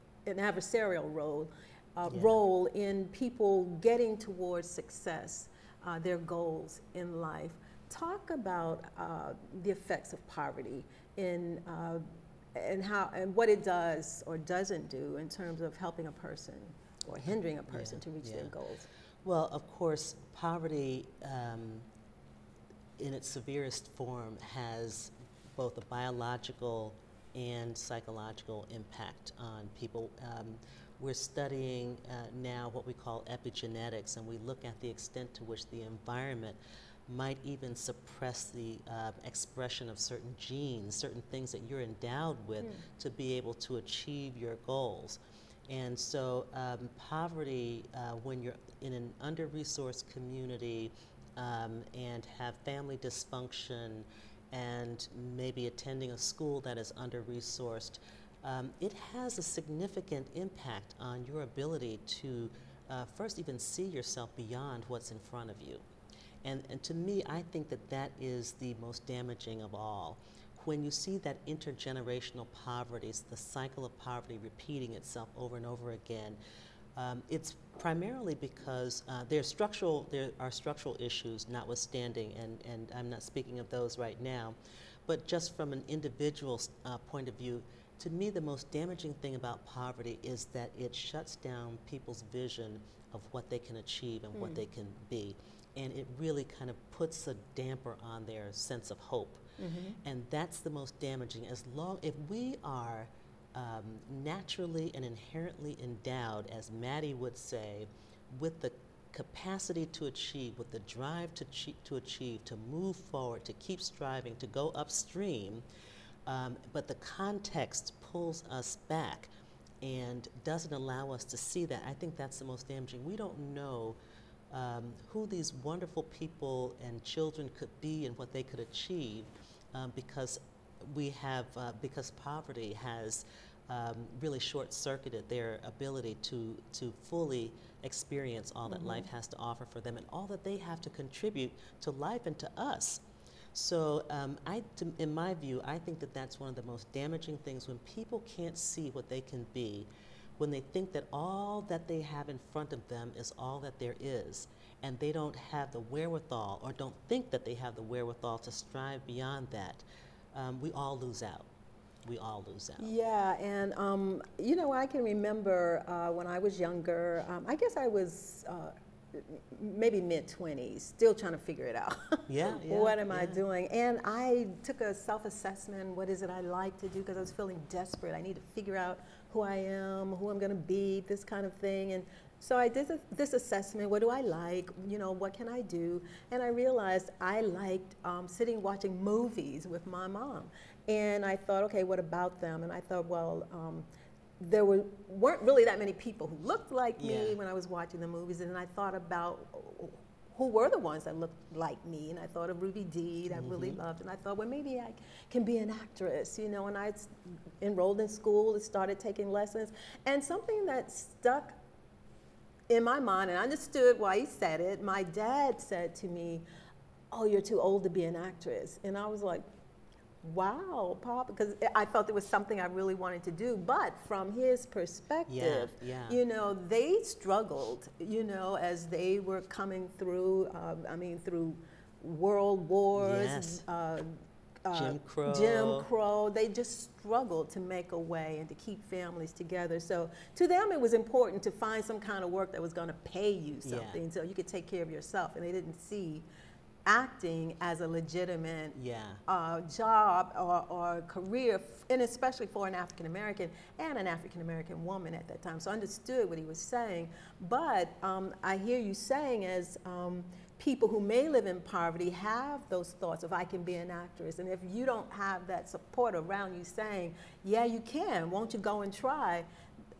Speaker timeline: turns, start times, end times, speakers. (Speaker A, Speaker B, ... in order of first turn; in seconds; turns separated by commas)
Speaker A: 0.2-12.0, Speaker B: 2.1-2.4, Speaker A: 12.5-18.9, Speaker B: 17.7-18.5, Speaker B: 19.2-21.9, Speaker B: 23.0-65.8, Speaker B: 66.4-76.4, Speaker B: 76.9-84.5, Speaker B: 85.1-99.4, Speaker A: 94.3-94.6, Speaker A: 99.6-100.0, Speaker B: 100.0-115.6, Speaker B: 116.2-119.3, Speaker B: 119.8-124.0, Speaker B: 124.5-143.0, Speaker A: 138.7-139.1, Speaker B: 143.5-149.9, Speaker B: 150.4-161.5, Speaker B: 162.0-162.9, Speaker A: 162.8-193.8, Speaker B: 172.3-173.4, Speaker A: 194.4-211.6, Speaker B: 197.0-197.4, Speaker B: 203.3-203.8, Speaker A: 212.7-216.4, Speaker A: 217.1-219.4, Speaker A: 220.2-246.2, Speaker B: 225.3-226.2, Speaker B: 232.9-233.6, Speaker B: 234.7-235.9, Speaker B: 243.6-244.0, Speaker A: 246.8-248.8, Speaker B: 248.7-249.2, Speaker A: 249.3-269.4